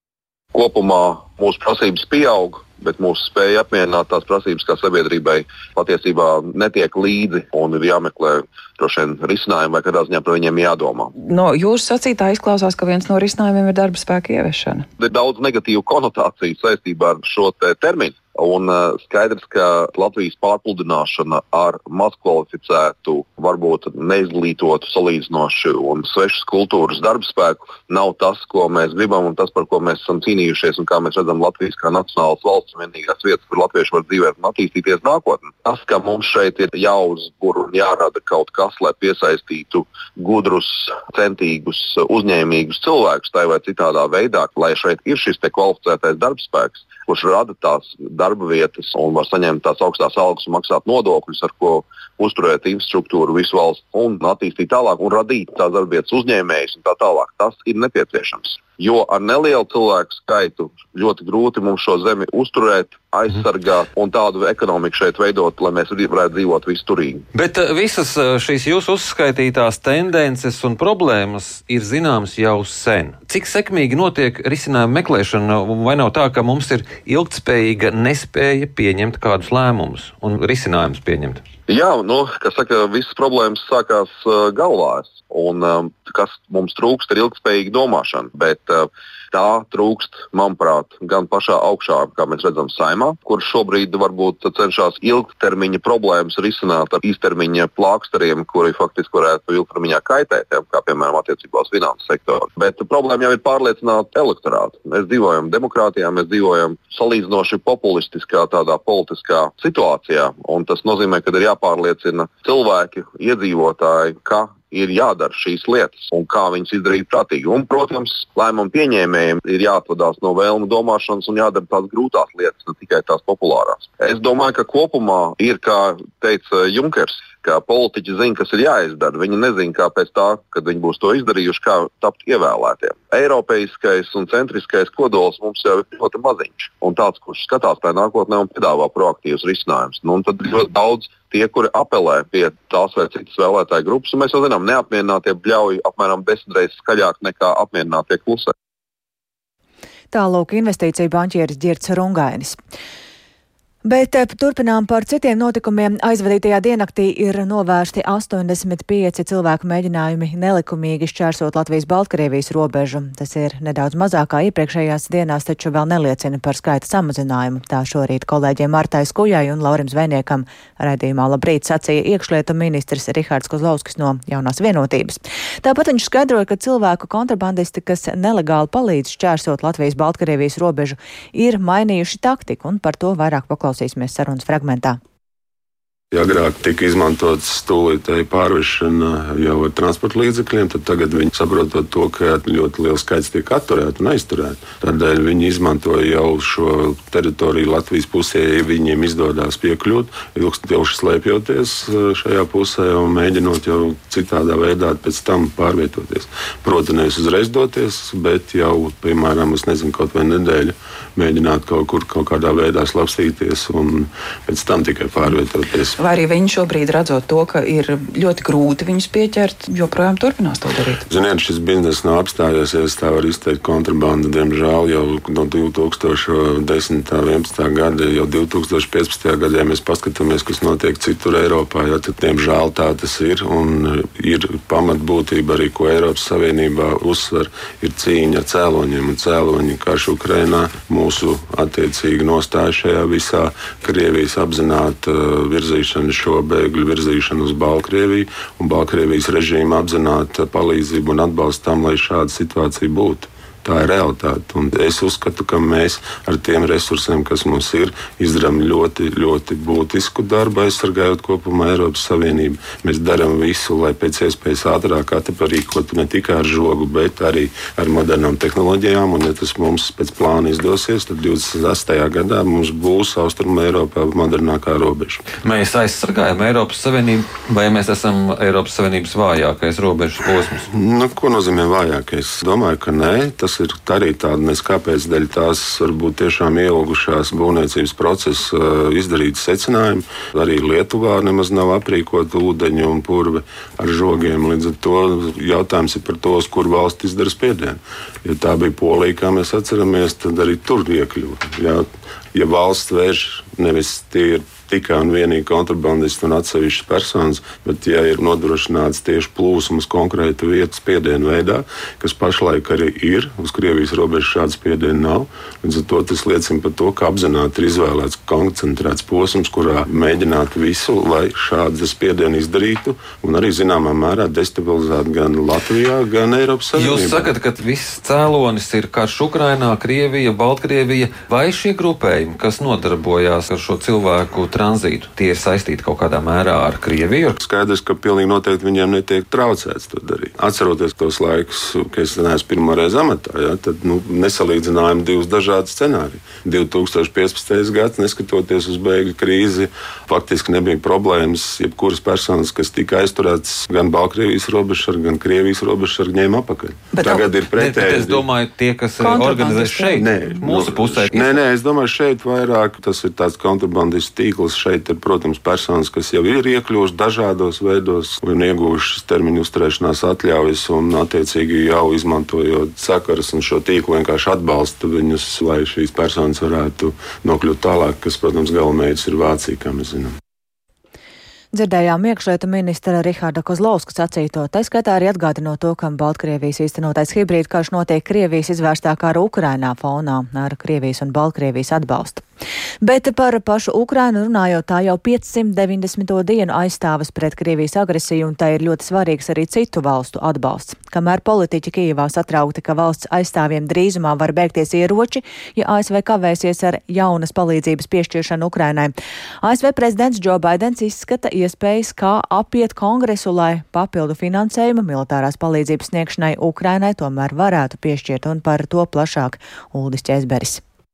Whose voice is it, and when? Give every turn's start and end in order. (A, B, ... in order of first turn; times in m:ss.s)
0:00.5-0:11.1 A
0:11.2-0:14.9 B
0:15.0-1:07.3 A
1:07.3-1:21.4 C
1:21.7-2:28.5 A
2:30.1-2:32.6 D
2:33.8-3:05.0 D
3:06.1-3:35.9 E
3:36.0-3:41.0 B
3:41.1-4:35.2 E
4:35.3-4:40.6 C
4:40.7-5:27.3 E
5:26.8-5:37.4 C
5:37.4-5:58.3 E
5:56.9-5:57.3 B
5:57.6-6:01.4 C
5:59.0-6:00.3 B
6:00.0-6:20.2 E
6:21.5-6:32.2 D
6:32.8-7:00.6 D